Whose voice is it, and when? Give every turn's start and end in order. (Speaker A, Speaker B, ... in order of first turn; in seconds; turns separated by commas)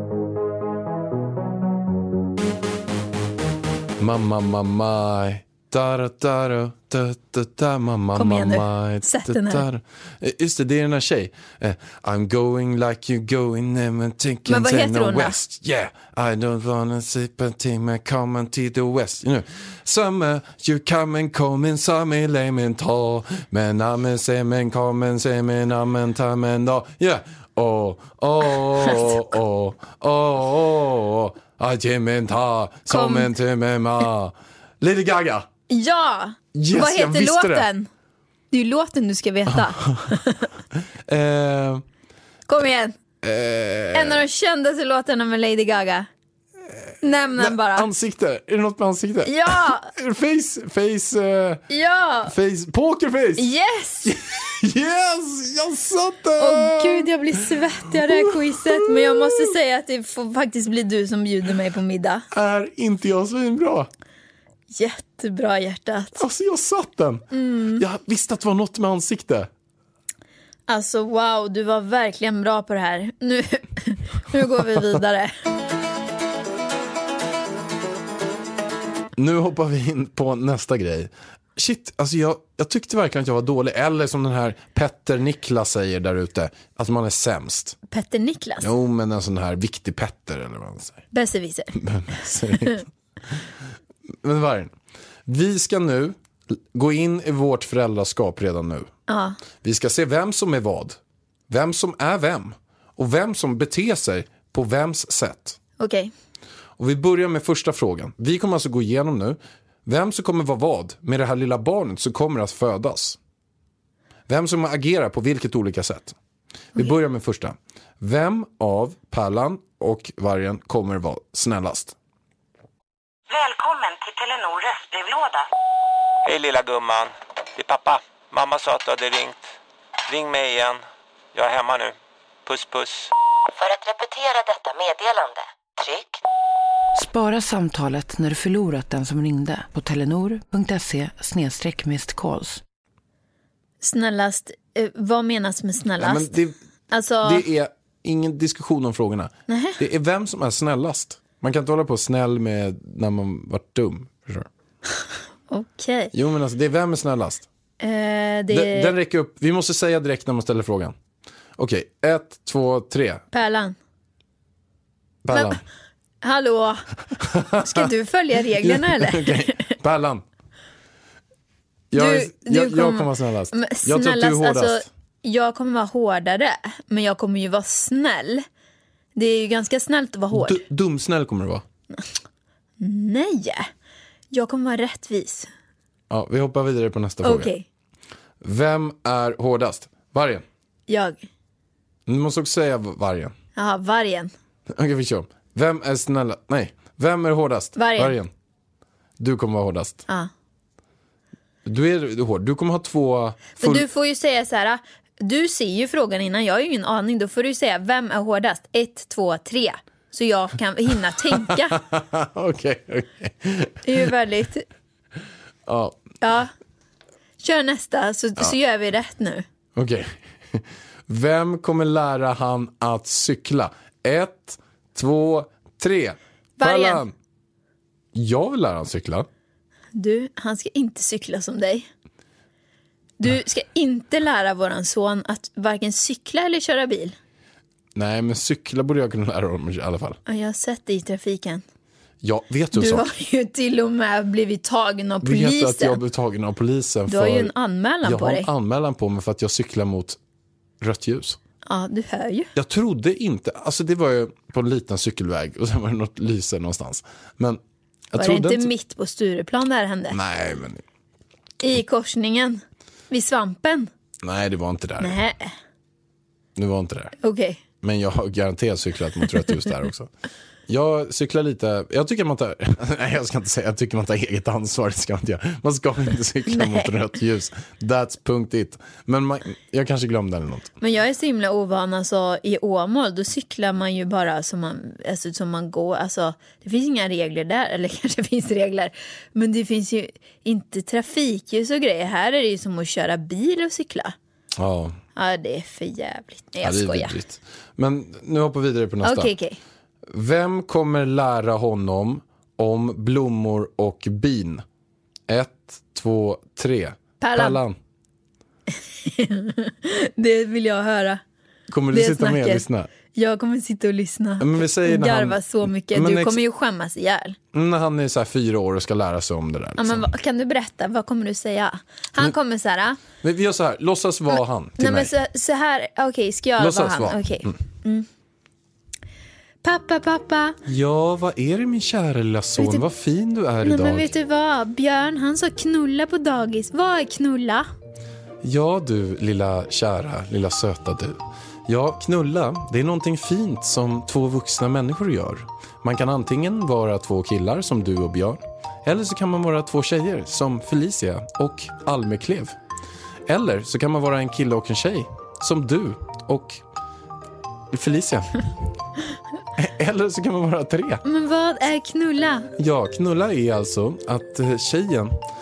Speaker A: 4.0-35.5, Speaker B: 8.1-9.6, Speaker B: 14.5-15.4, Speaker B: 32.9-33.3, Speaker B: 35.7-37.9, Speaker A: 36.5-37.7, Speaker B: 38.5-40.5, Speaker A: 39.5-40.2, Speaker A: 41.1-41.8, Speaker B: 42.5-43.0, Speaker A: 43.2-44.2, Speaker B: 43.9-46.1, Speaker B: 47.0-47.9, Speaker A: 47.4-51.6, Speaker B: 49.2-49.9, Speaker B: 51.7-52.4, Speaker A: 52.3-53.5, Speaker B: 53.4-54.1, Speaker A: 54.0-59.5, Speaker B: 56.4-62.3, Speaker A: 62.3-63.9, Speaker B: 64.7-66.2, Speaker A: 66.2-67.3, Speaker B: 67.3-67.8, Speaker A: 67.8-69.5, Speaker B: 70.7-75.3, Speaker A: 79.2-87.8, Speaker B: 87.9-88.7, Speaker A: 88.6-91.0, Speaker B: 91.1-91.8, Speaker A: 91.8-92.8, Speaker B: 92.5-92.8, Speaker A: 94.2-94.7, Speaker A: 95.3-98.9, Speaker B: 99.1-99.4, Speaker A: 99.6-101.0, Speaker A: 101.5-105.6, Speaker B: 105.8-106.1, Speaker A: 106.8-113.2, Speaker A: 114.3-116.2, Speaker A: 116.8-122.0, Speaker C: 123.3-125.5, Speaker D: 126.2-129.4, Speaker D: 130.1-133.1, Speaker C: 133.6-136.2, Speaker E: 136.9-142.6, Speaker B: 143.8-146.3, Speaker A: 146.0-146.6, Speaker B: 146.9-147.4, Speaker A: 147.2-154.5, Speaker B: 149.5-149.8, Speaker B: 155.5-156.1, Speaker A: 156.1-157.4, Speaker B: 157.8-158.9, Speaker A: 158.5-160.9, Speaker A: 161.6-163.2, Speaker B: 163.3-163.8, Speaker A: 165.2-165.6, Speaker B: 165.3-165.6, Speaker B: 166.2-166.8, Speaker A: 167.2-167.9, Speaker B: 167.6-169.8, Speaker A: 168.6-170.2, Speaker A: 171.9-174.9, Speaker B: 171.9-178.4, Speaker B: 179.2-180.6, Speaker A: 180.3-181.6, Speaker B: 182.8-183.7, Speaker B: 184.3-185.5, Speaker A: 186.1-187.5, Speaker B: 187.2-187.6, Speaker A: 188.4-190.4, Speaker B: 190.9-191.3, Speaker A: 192.1-193.3, Speaker B: 193.6-194.3, Speaker A: 194.7-198.3, Speaker B: 197.8-198.2, Speaker A: 199.2-200.0, Speaker A: 201.6-203.9, Speaker B: 203.6-211.8, Speaker A: 211.3-213.8, Speaker B: 213.8-214.6, Speaker A: 215.7-216.0, Speaker B: 216.2-216.5, Speaker B: 217.4-219.4, Speaker A: 219.8-227.1, Speaker B: 226.6-227.0, Speaker A: 228.1-229.3, Speaker B: 229.9-231.9, Speaker B: 233.2-237.2, Speaker A: 237.9-240.2, Speaker B: 240.3-241.6, Speaker A: 242.2-243.1, Speaker B: 242.7-246.0, Speaker A: 245.2-247.5, Speaker B: 247.1-248.5, Speaker A: 248.0-250.2, Speaker A: 250.8-251.4, Speaker B: 251.7-252.5, Speaker A: 252.6-257.6, Speaker A: 258.1-258.7, Speaker B: 258.1-260.2, Speaker A: 260.1-260.8, Speaker B: 261.6-263.9, Speaker A: 264.2-265.2, Speaker B: 265.0-265.6, Speaker A: 266.6-267.1, Speaker B: 267.2-267.6, Speaker A: 267.8-270.1, Speaker A: 270.7-280.7, Speaker B: 276.5-276.9, Speaker B: 280.8-294.1, Speaker A: 294.6-295.0, Speaker B: 295.1-297.2, Speaker A: 296.6-299.3, Speaker B: 299.0-299.6, Speaker A: 300.1-304.6, Speaker A: 305.3-307.8, Speaker B: 307.2-307.6, Speaker B: 308.9-311.2, Speaker A: 311.7-312.9, Speaker B: 311.9-317.4, Speaker A: 314.4-316.4, Speaker A: 317.5-320.1, Speaker B: 319.8-323.0, Speaker A: 323.2-325.1, Speaker B: 324.8-328.1, Speaker A: 326.6-327.6, Speaker B: 329.6-330.6, Speaker A: 330.6-334.1, Speaker B: 332.6-332.8, Speaker B: 333.6-337.7, Speaker A: 338.4-352.6, Speaker A: 353.3-356.6, Speaker A: 357.7-358.4, Speaker A: 359.6-361.0, Speaker B: 361.1-362.5, Speaker A: 362.6-365.2